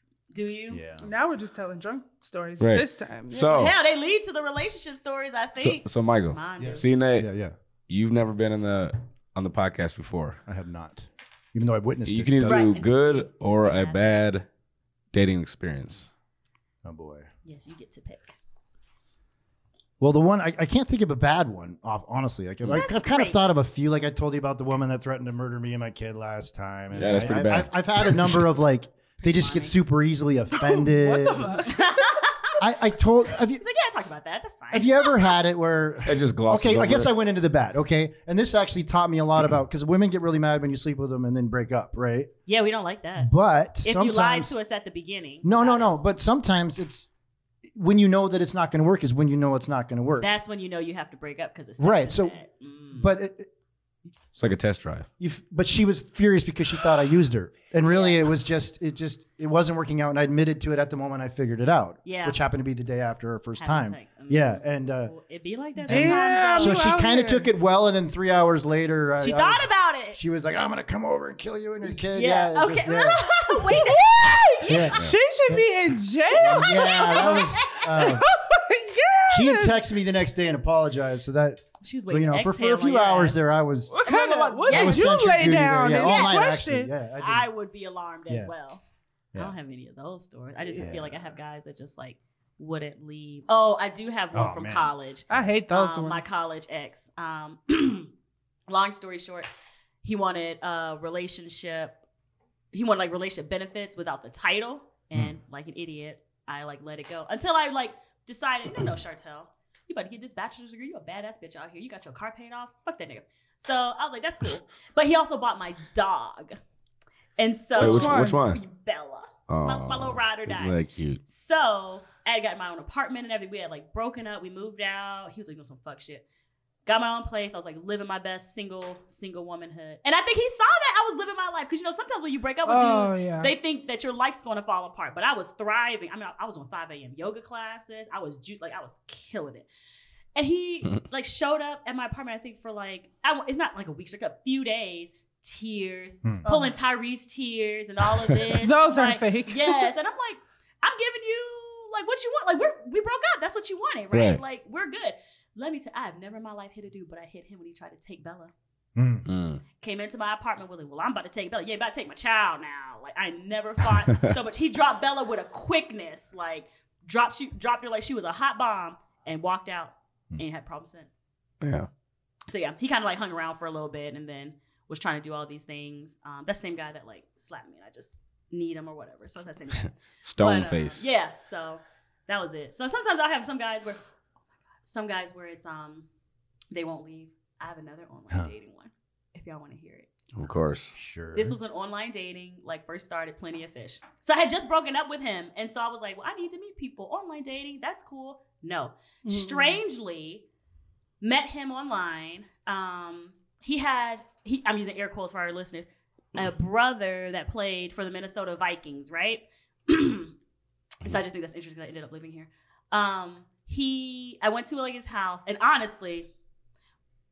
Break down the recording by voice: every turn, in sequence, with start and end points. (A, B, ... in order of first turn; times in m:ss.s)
0:00.3-0:00.8 A
0:00.7-0:01.1 B
0:01.0-0:03.7 C
0:02.6-0:03.8 D
0:03.5-0:06.9 A
0:05.6-0:07.3 D
0:06.6-0:07.6 B
0:07.9-0:10.4 D
0:10.5-0:12.7 B
0:12.1-0:14.5 D
0:12.5-0:14.2 A
0:15.1-0:16.1 D
0:16.8-0:17.3 B
0:17.4-0:18.4 A
0:20.0-0:31.7 B
0:22.7-0:23.6 A
0:26.9-0:28.4 D
0:29.2-0:29.7 A
0:30.5-0:32.2 C
0:31.6-0:32.6 A
0:32.6-0:33.6 B
0:33.5-0:35.3 A
0:34.7-0:42.3 B
0:36.0-0:37.1 D
0:42.5-0:43.3 A
0:43.2-0:44.5 B
0:43.8-0:45.9 A
0:45.4-0:47.1 B
0:47.7-0:50.3 B
0:50.2-0:53.1 A
0:51.8-0:52.4 B
0:52.9-0:53.5 B
0:54.4-0:55.1 D
0:55.2-1:05.1 B
0:57.8-0:58.3 A
1:02.0-1:02.4 A
1:03.6-1:06.8 A
1:05.9-1:07.5 C
1:05.9-1:13.3 B
1:09.2-1:10.2 A
1:12.1-1:14.9 A
1:13.6-1:19.8 C
1:14.6-1:15.7 B
1:16.3-1:18.1 A
1:16.4-1:18.3 B
1:19.3-1:24.0 B
1:21.8-1:23.4 A
1:23.9-1:26.9 C
1:24.0-1:25.2 A
1:24.7-1:27.5 B
1:25.9-1:26.4 A
1:27.2-1:28.8 A
1:29.4-1:38.1 A
1:30.7-1:31.3 B
1:34.3-1:35.5 B
1:35.3-1:36.3 C
1:38.7-1:39.5 A
1:40.0-1:42.0 A
1:42.7-1:56.6 A
1:57.4-2:06.2 A
1:57.8-1:58.4 C
1:57.8-1:58.6 D
1:59.5-2:01.2 D
2:06.9-2:19.7 A
2:12.7-2:13.5 C
2:20.4-2:38.5 A
2:26.2-2:26.5 B
2:28.6-2:29.9 C
2:34.1-2:34.4 D
2:39.0-2:39.3 B
2:39.3-2:39.6 D
2:39.8-2:51.1 A
2:51.6-2:51.9 D
2:52.5-3:04.0 A
3:00.2-3:01.1 D
3:04.8-3:06.1 A
3:06.7-3:10.1 A
3:10.4-3:11.0 D
3:11.0-3:11.6 B
3:11.3-3:20.4 A
3:19.2-3:19.8 C
3:21.2-3:30.3 A
3:31.0-3:36.3 A